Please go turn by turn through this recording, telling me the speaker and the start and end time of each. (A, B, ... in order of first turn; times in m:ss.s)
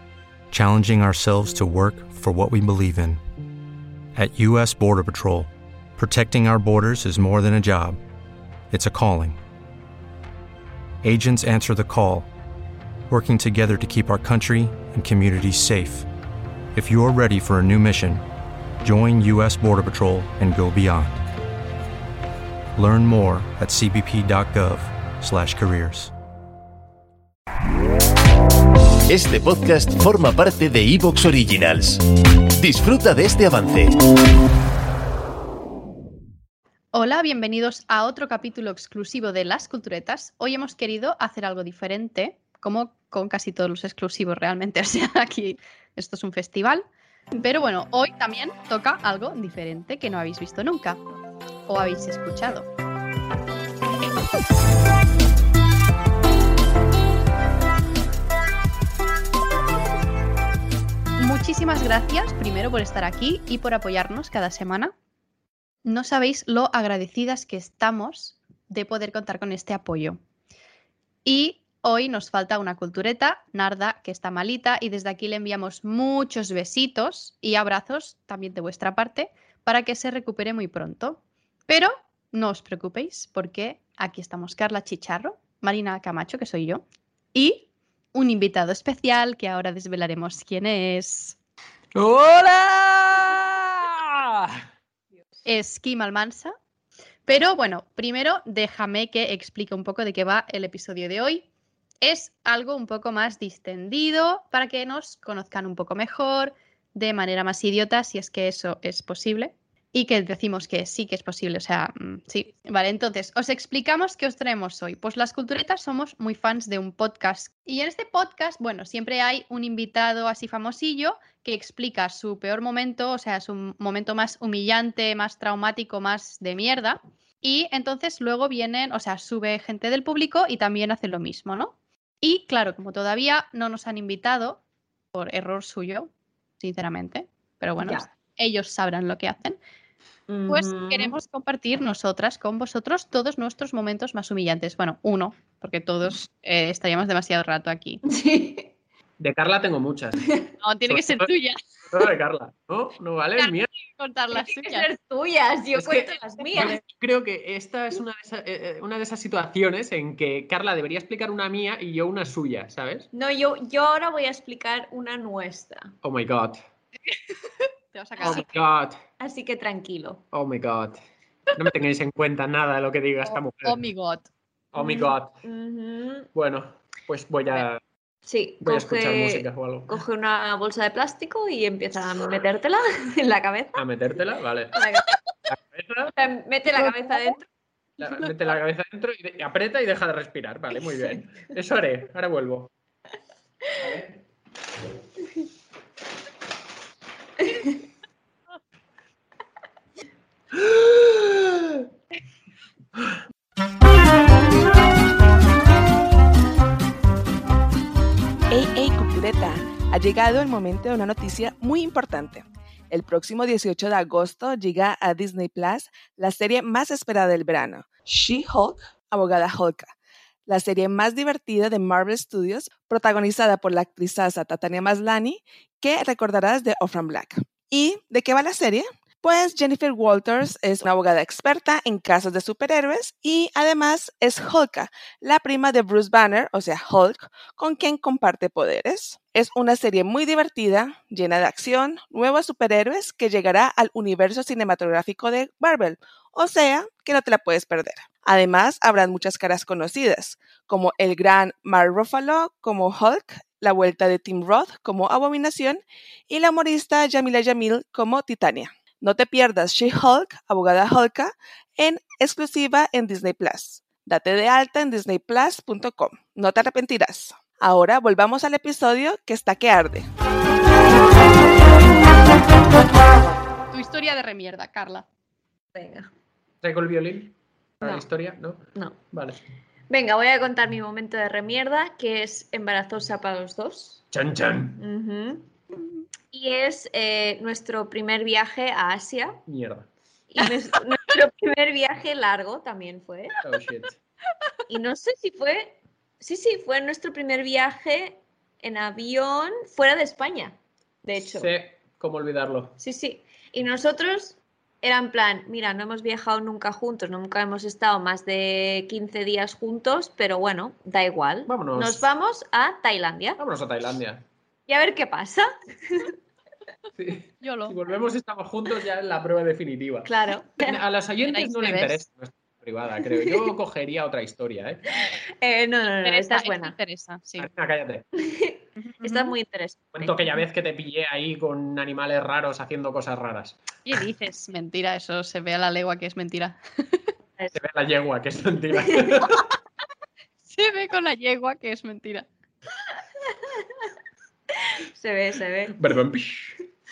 0:00.5-0:03.2 A
0:04.2-0:08.0 A
0:08.7-0:09.4 A
0:11.0-0:12.3 A
0:13.1-0:16.1 A
0:16.7-0:18.2 A
0:18.8-0:21.2 A
0:22.8-0:26.1 A
0:29.1-0:32.0 B
0:32.5-0:34.0 B
0:36.9-0:51.0 C
0:51.6-0:52.7 C
1:01.2-1:04.9 C
1:05.8-1:10.2 C
1:11.2-1:31.4 C
1:31.9-1:34.6 D
1:35.4-1:36.5 C
1:37.2-1:41.4 C
1:42.0-2:14.6 C
2:15.1-2:19.6 C
2:17.8-2:18.0 E
2:20.3-2:21.2 E
2:20.5-2:28.0 C
2:28.1-2:28.7 E
2:29.2-2:30.3 D
2:30.2-2:30.5 E
2:30.6-2:31.6 C
2:30.9-2:31.3 D
2:31.9-2:33.7 D
2:33.4-2:34.9 C
2:34.3-2:36.8 E
2:35.7-2:43.1 D
2:36.4-2:36.8 C
2:43.1-2:45.9 E
2:46.0-2:46.6 D
2:47.9-2:48.5 C
2:48.2-2:49.0 D
2:49.2-2:50.2 E
2:50.3-2:51.0 D
2:51.6-2:53.8 D
2:53.2-2:54.3 C
2:54.7-2:55.3 D
2:54.8-2:56.3 E
2:56.3-2:57.8 D
2:58.2-3:03.8 E
2:58.6-3:00.0 D
3:03.8-3:04.8 D
3:04.8-3:05.2 E
3:05.5-3:06.1 D
3:06.1-3:07.5 E
3:06.8-3:07.3 C
3:08.0-3:08.3 C
3:08.0-3:12.7 D
3:13.8-3:14.2 D
3:17.4-3:17.7 E
3:20.6-3:21.4 D
3:28.5-3:39.9 F
3:40.4-4:30.1 F
4:33.7-4:35.0 C
4:35.7-4:36.1 E
4:36.6-4:39.4 D
4:39.9-4:44.0 E
4:44.1-4:44.8 D
4:44.8-4:45.5 E
4:46.3-4:49.4 E
4:49.5-4:49.9 D
4:50.3-4:53.4 E
4:53.4-4:54.0 D
4:54.7-5:01.5 E
5:01.3-5:02.8 D
5:02.8-5:13.4 E
5:11.5-5:12.1 D
5:13.4-5:14.2 D
5:14.7-5:16.1 E
5:17.0-5:24.8 D
5:17.4-5:17.8 C
5:20.0-5:20.8 E
5:21.2-5:22.0 C
5:23.1-5:23.5 E
5:25.1-5:26.7 E
5:26.0-5:27.5 C
5:27.4-5:28.2 D
5:28.2-5:30.3 E
5:28.8-5:29.3 C
5:29.9-5:33.6 D
5:33.8-5:37.1 C
5:37.5-5:39.5 D
5:40.4-5:42.3 C
5:43.3-5:43.9 E
5:44.8-5:45.8 E
5:45.7-5:46.7 D